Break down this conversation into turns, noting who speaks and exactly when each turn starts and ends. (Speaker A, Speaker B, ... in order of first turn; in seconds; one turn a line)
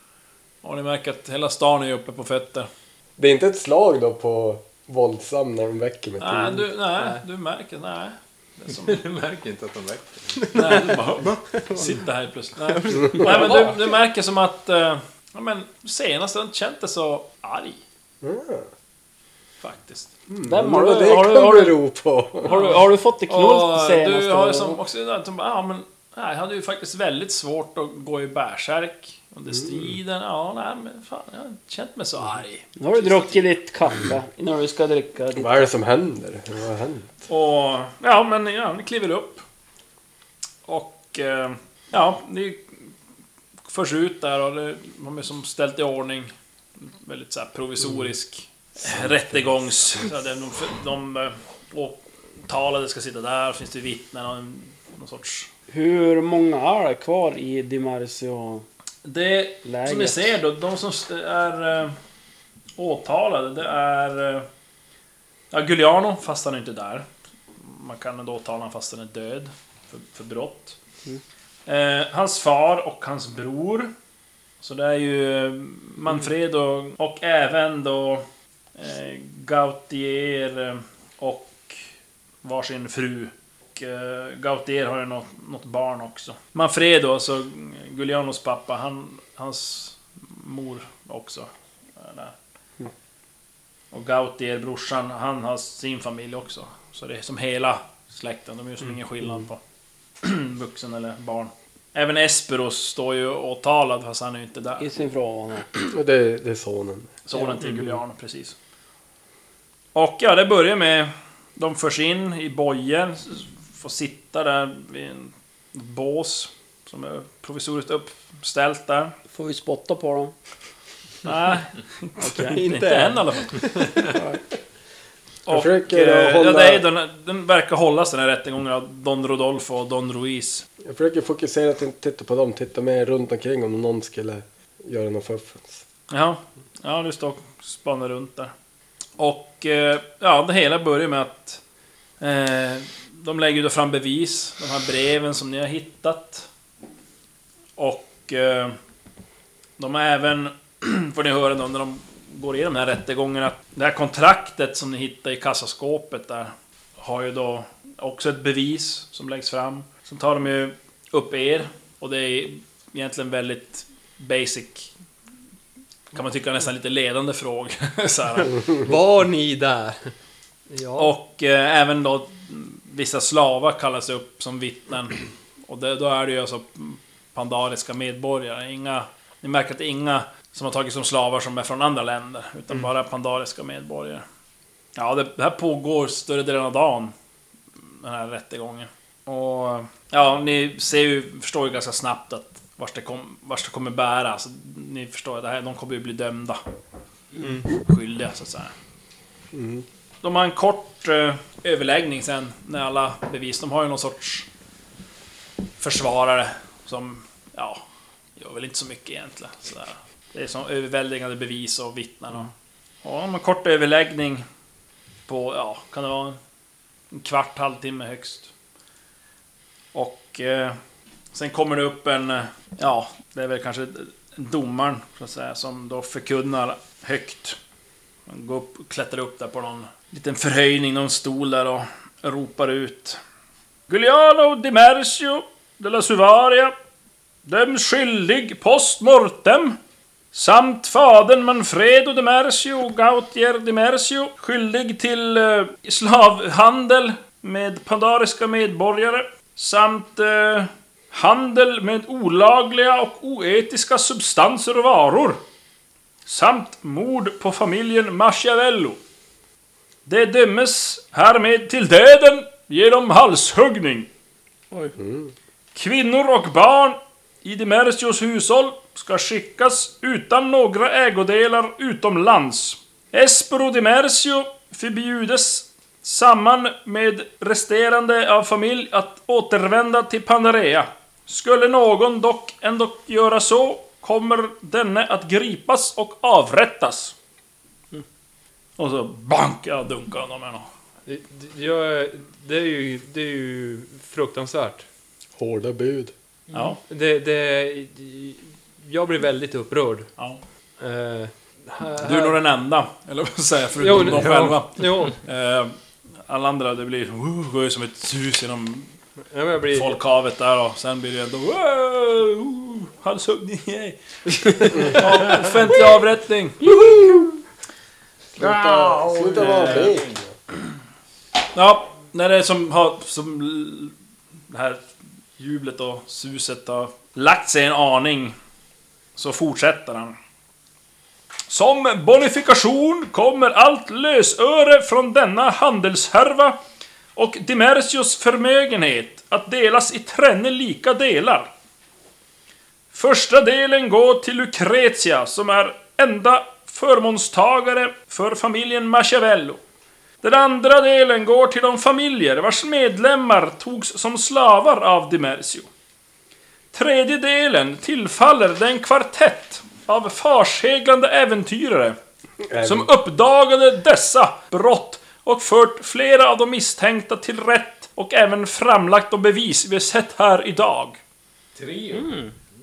Speaker A: 0.6-2.7
Speaker B: 3.2-6.7
Speaker A: 6.2-9.0
Speaker C: 8.7-10.4
Speaker D: 10.4-11.0
Speaker A: 10.5-17.8
Speaker D: 11.5-11.9
Speaker D: 12.6-13.8
Speaker B: 18.2-18.7
Speaker A: 19.6-20.1
Speaker B: 20.3-22.6
Speaker E: 20.4-21.8
Speaker E: 22.4-24.8
Speaker A: 22.4-33.4
Speaker B: 29.5-29.9
Speaker E: 32.8-35.7
Speaker B: 35.4-37.1
Speaker A: 37.3-39.4
Speaker A: 40.6-42.9
Speaker A: 43.7-55.5
Speaker E: 55.7-58.6
Speaker A: 59.0-61.9
Speaker E: 59.6-60.3
Speaker A: 62.8-64.5
Speaker A: 65.5-67.0
Speaker A: 67.6-70.8
Speaker A: 71.7-73.9
Speaker A: 74.6-78.2
Speaker A: 78.8-81.8
Speaker A: 82.4-92.3
Speaker A: 93.9-99.6
Speaker A: 100.2-104.9
Speaker E: 104.8-105.7
Speaker B: 105.9-107.2
Speaker A: 107.2-108.5
Speaker A: 109.9-119.1
Speaker E: 119.3-120.3
Speaker A: 121.2-123.7
Speaker E: 122.2-122.6
Speaker D: 122.4-124.0
Speaker E: 124.1-124.4
Speaker A: 125.5-130.6
Speaker B: 125.5-126.8
Speaker B: 130.8-135.8
Speaker A: 136.1-138.5
Speaker A: 139.2-141.6
Speaker A: 142.2-146.5
Speaker A: 147.8-148.8
Speaker A: 149.8-164.9
Speaker A: 166.1-168.6
Speaker D: 168.6-170.1
Speaker D: 170.7-171.1
Speaker A: 171.0-184.2
Speaker A: 184.9-187.1
Speaker A: 188.0-196.6
Speaker D: 197.4-197.7
Speaker A: 197.8-198.7
Speaker B: 199.5-199.8
Speaker A: 200.2-204.5
Speaker A: 205.8-207.8
Speaker A: 208.4-212.5
Speaker A: 213.0-214.4
Speaker A: 215.3-216.4
Speaker A: 217.1-218.5
Speaker A: 219.9-220.8
Speaker A: 221.3-227.6
Speaker A: 228.3-233.2
Speaker A: 233.9-236.8
Speaker A: 237.4-239.8
Speaker A: 240.3-255.4
Speaker A: 256.2-259.0
Speaker A: 260.1-264.1
Speaker B: 264.9-265.3
Speaker A: 265.7-287.1
Speaker A: 288.8-290.7
Speaker D: 291.1-294.9
Speaker B: 295.4-296.1
Speaker A: 296.5-296.8
Speaker D: 296.8-300.1
Speaker D: 300.8-302.4
Speaker A: 302.0-305.7
Speaker D: 303.8-305.1
Speaker C: 303.9-304.6
Speaker A: 306.3-308.9
Speaker D: 309.3-309.9
Speaker A: 309.7-317.1
Speaker C: 318.4-320.1
Speaker B: 318.4-320.3
Speaker A: 319.4-319.9
Speaker A: 321.5-323.9
Speaker A: 324.5-324.8
Speaker A: 325.4-328.4
Speaker A: 329.1-330.1
Speaker A: 331.5-336.6
Speaker A: 337.1-341.5
Speaker A: 342.9-349.6
Speaker A: 350.2-355.7
Speaker A: 356.7-362.0
Speaker B: 362.5-362.9
Speaker A: 362.6-371.0
Speaker C: 371.6-372.2
Speaker E: 371.9-372.3